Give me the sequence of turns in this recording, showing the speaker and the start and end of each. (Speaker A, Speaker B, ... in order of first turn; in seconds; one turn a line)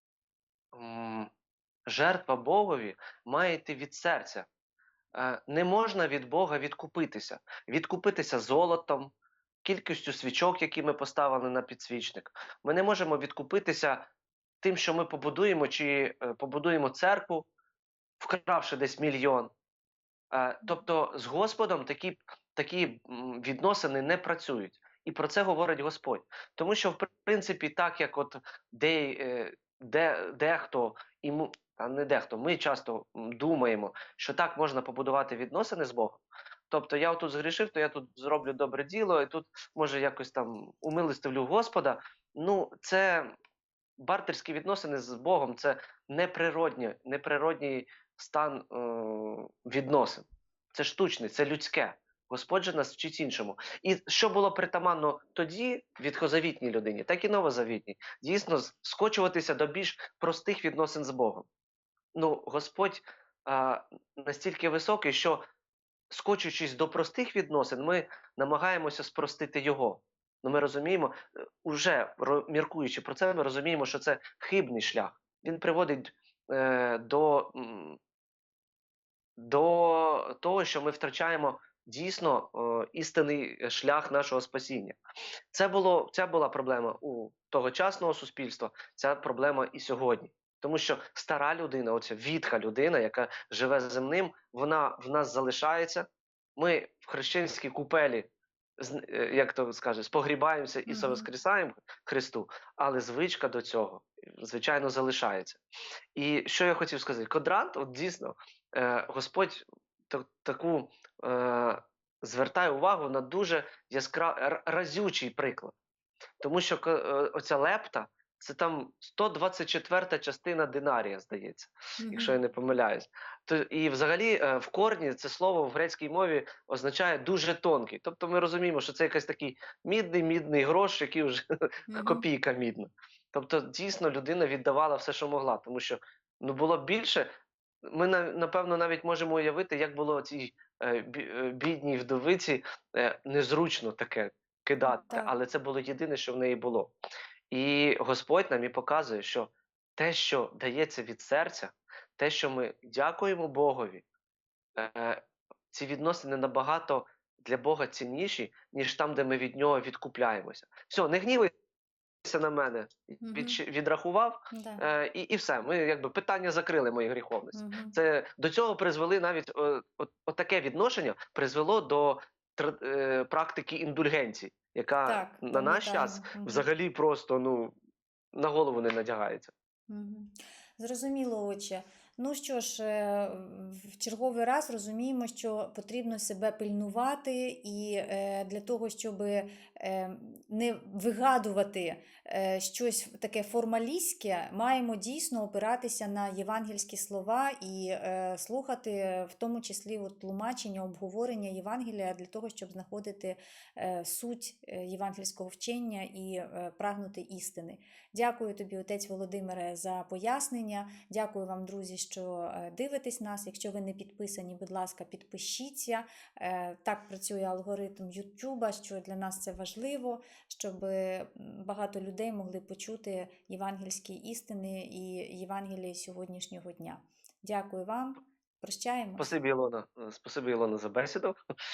Speaker A: 0.7-1.3
Speaker A: 1.9-4.5
Speaker A: 5.2-9.1
Speaker A: 9.6-14.1
Speaker A: 14.6-17.5
Speaker A: 18.2-19.5
Speaker A: 20.3-43.3
Speaker A: 44.0-61.5
Speaker A: 62.1-65.4
Speaker A: 66.1-78.0
Speaker A: 79.4-85.0
Speaker A: 85.5-105.6
Speaker B: 100.9-101.3
Speaker A: 106.2-115.7
Speaker A: 116.4-137.3
Speaker B: 122.0-122.4
Speaker B: 131.9-132.2
Speaker A: 137.9-146.9
Speaker B: 144.8-145.3
Speaker A: 147.5-154.1
Speaker A: 154.8-161.5
Speaker A: 162.2-177.8
Speaker B: 163.2-163.6
Speaker B: 164.5-164.8
Speaker B: 167.5-168.0
Speaker B: 175.1-176.7
Speaker A: 178.3-179.5
Speaker B: 179.9-229.3
Speaker A: 229.2-231.4